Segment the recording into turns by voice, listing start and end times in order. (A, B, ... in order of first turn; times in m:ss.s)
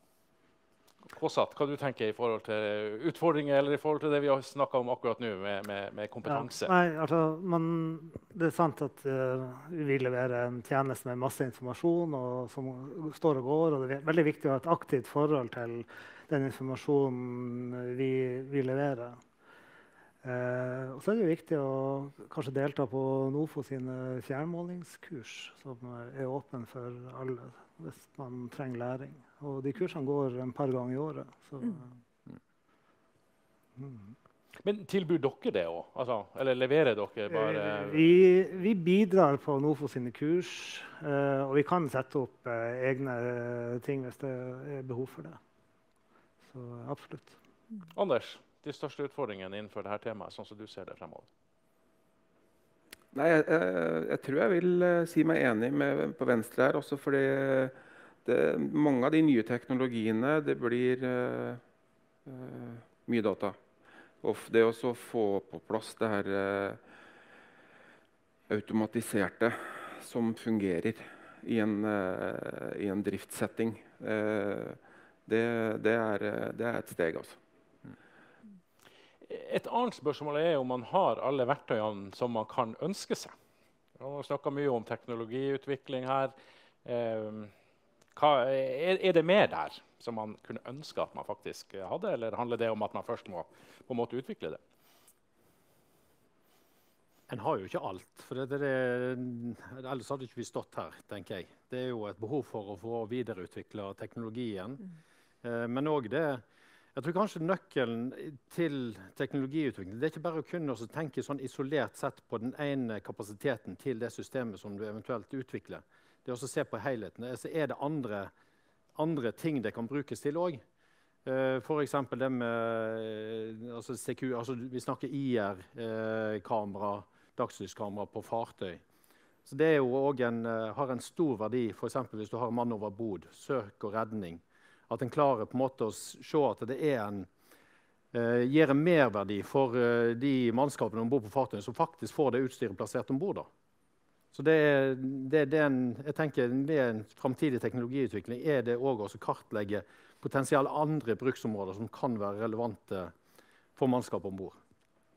0:01.1-0:06.7 A
0:06.3-0:19.2 B
0:20.2-0:31.9 B
0:33.8-0:34.1 B
0:34.6-0:38.1 A
0:37.3-0:45.4 B
0:46.4-0:47.4 B
0:47.9-0:51.3 A
0:53.1-1:01.6 C
1:02.2-1:03.6 C
1:04.2-1:06.9 C
1:08.5-1:17.4 C
1:19.3-1:23.3 A
1:24.0-1:26.3 A
1:26.8-1:27.5 A
1:28.2-1:34.6 A
1:37.3-1:44.8 D
1:45.4-1:46.4 D
1:46.9-1:58.3 D
1:59.0-2:00.6 D
2:01.2-2:08.8 D
2:09.4-2:17.3 D
2:18.1-2:23.5 D
2:24.3-2:33.1 D
2:33.8-2:34.6 D